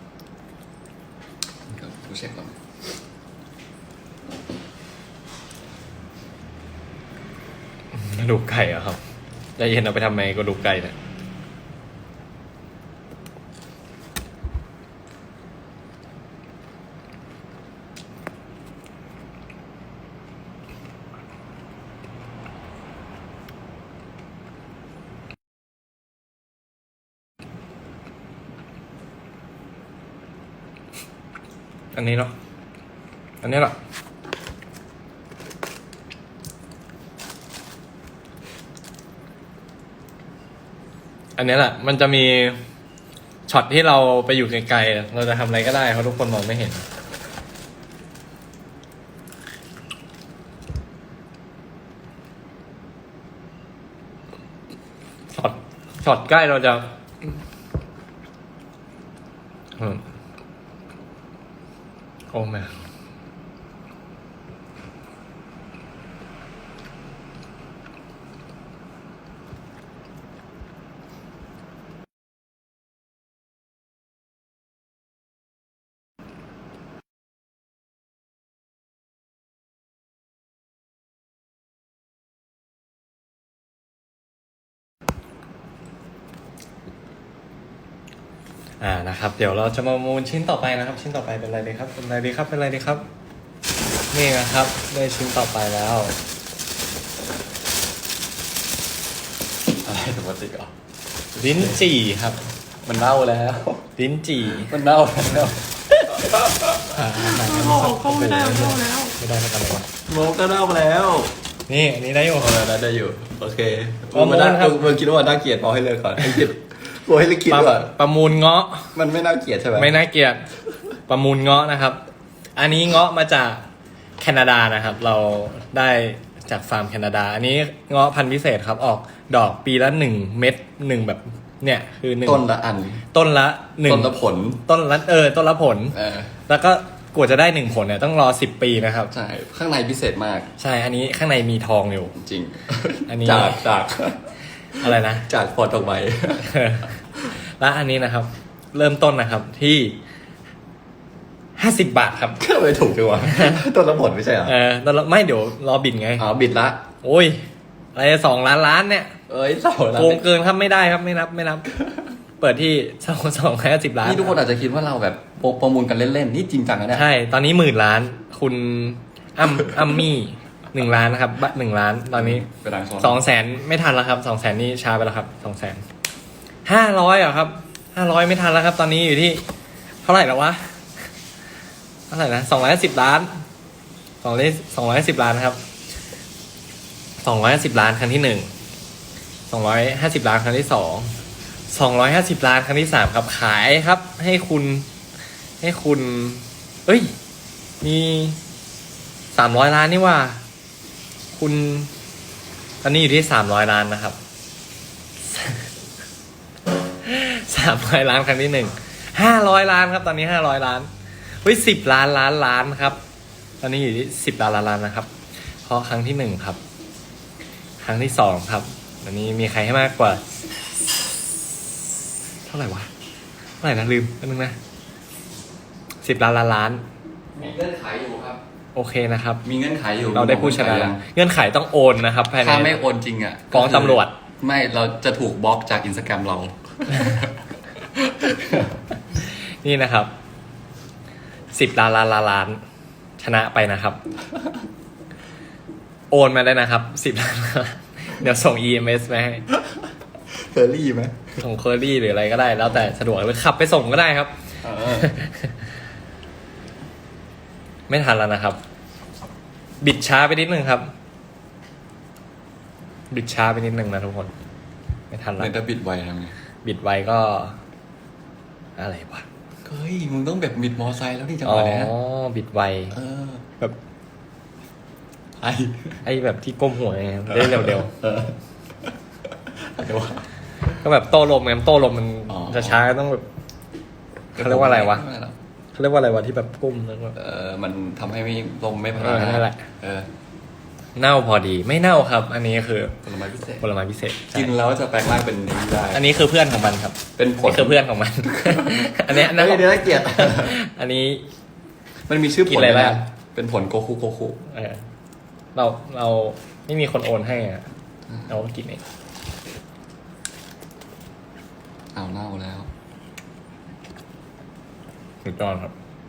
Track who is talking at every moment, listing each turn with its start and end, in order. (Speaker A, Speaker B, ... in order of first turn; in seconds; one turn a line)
Speaker A: 1.7-2.6
Speaker B: 7.9-9.0
Speaker B: 9.6-10.9
Speaker B: 31.9-32.3
Speaker B: 33.4-33.8
Speaker B: 41.4-42.6
Speaker B: 43.5-46.8
Speaker B: 55.3-56.9
Speaker B: 59.8-60.0
Speaker B: 62.3-62.8
Speaker B: 88.8-93.0
Speaker B: 94.1-96.1
Speaker A: 99.8-100.7
Speaker A: 101.3-101.8
Speaker B: 101.4-102.4
Speaker A: 102.8-103.9
Speaker B: 104.0-104.7
Speaker A: 104.5-109.2
Speaker B: 106.9-109.9
Speaker A: 110.1-111.3
Speaker B: 111.7-112.5
Speaker A: 112.3-117.9
Speaker B: 114.1-115.0
Speaker B: 117.5-118.9
Speaker A: 118.9-120.0
Speaker B: 119.7-120.5
Speaker B: 121.1-122.0
Speaker B: 122.6-123.6
Speaker B: 124.2-132.4
Speaker A: 132.2-133.1
Speaker B: 133.1-136.0
Speaker A: 133.8-134.6
Speaker A: 135.9-136.3
Speaker B: 136.5-139.1
Speaker A: 139.1-140.5
Speaker B: 140.6-142.2
Speaker A: 142.2-144.3
Speaker B: 143.1-143.6
Speaker B: 144.8-145.3
Speaker A: 144.8-146.6
Speaker B: 146.4-150.0
Speaker B: 151.6-152.4
Speaker A: 152.4-154.5
Speaker B: 153.2-153.6
Speaker B: 154.4-156.2
Speaker A: 156.2-156.8
Speaker B: 157.0-159.1
Speaker A: 159.3-160.3
Speaker B: 159.9-161.7
Speaker B: 162.4-164.4
Speaker A: 164.0-167.1
Speaker B: 166.9-172.5
Speaker A: 172.2-173.2
Speaker B: 173.0-175.8
Speaker B: 176.6-179.4
Speaker B: 180.0-180.7
Speaker B: 182.1-183.4
Speaker B: 184.2-185.6
Speaker B: 187.2-188.5
Speaker B: 189.5-191.1
Speaker B: 191.7-194.9
Speaker B: 195.6-197.1
Speaker B: 197.8-198.4
Speaker B: 199.3-200.4
Speaker B: 201.3-201.9
Speaker B: 202.8-204.2
Speaker B: 205.3-205.7
Speaker B: 207.0-210.9
Speaker B: 211.4-213.0
Speaker B: 213.6-215.1
Speaker B: 215.6-216.6
Speaker B: 217.8-220.2
Speaker B: 222.5-222.9
Speaker B: 223.6-224.6
Speaker B: 226.0-226.8
Speaker A: 227.3-228.4
Speaker B: 228.7-229.4
Speaker A: 229.4-231.1
Speaker B: 230.1-232.8
Speaker A: 232.4-238.7
Speaker B: 233.5-234.2
Speaker B: 239.1-240.1
Speaker B: 241.5-242.6
Speaker B: 243.2-244.0
Speaker B: 246.1-249.5
Speaker A: 250.3-251.2
Speaker B: 251.4-254.3
Speaker A: 254.6-255.1
Speaker B: 254.8-255.6
Speaker B: 257.9-258.6
Speaker B: 259.8-260.9
Speaker B: 263.1-264.3
Speaker B: 265.1-265.5
Speaker A: 265.4-266.4
Speaker B: 266.6-267.6
Speaker B: 268.8-269.2
Speaker A: 269.6-271.9
Speaker B: 271.4-273.0
Speaker A: 272.9-273.4
Speaker A: 275.4-276.0
Speaker B: 276.0-278.0
Speaker A: 277.3-278.4
Speaker A: 279.5-280.3
Speaker B: 280.6-283.2
Speaker A: 282.3-282.8
Speaker A: 284.3-285.4
Speaker B: 284.4-285.0
Speaker B: 285.7-287.2
Speaker A: 287.1-290.1
Speaker B: 288.9-289.7
Speaker B: 290.9-293.0
Speaker A: 293.0-293.6
Speaker B: 293.6-294.5
Speaker A: 294.3-296.1
Speaker B: 295.9-301.2
Speaker A: 297.2-300.6
Speaker A: 302.1-304.4
Speaker B: 302.5-303.0
Speaker B: 304.5-304.9
Speaker B: 305.5-307.6
Speaker B: 308.3-308.8
Speaker A: 311.9-312.7
Speaker B: 315.2-315.7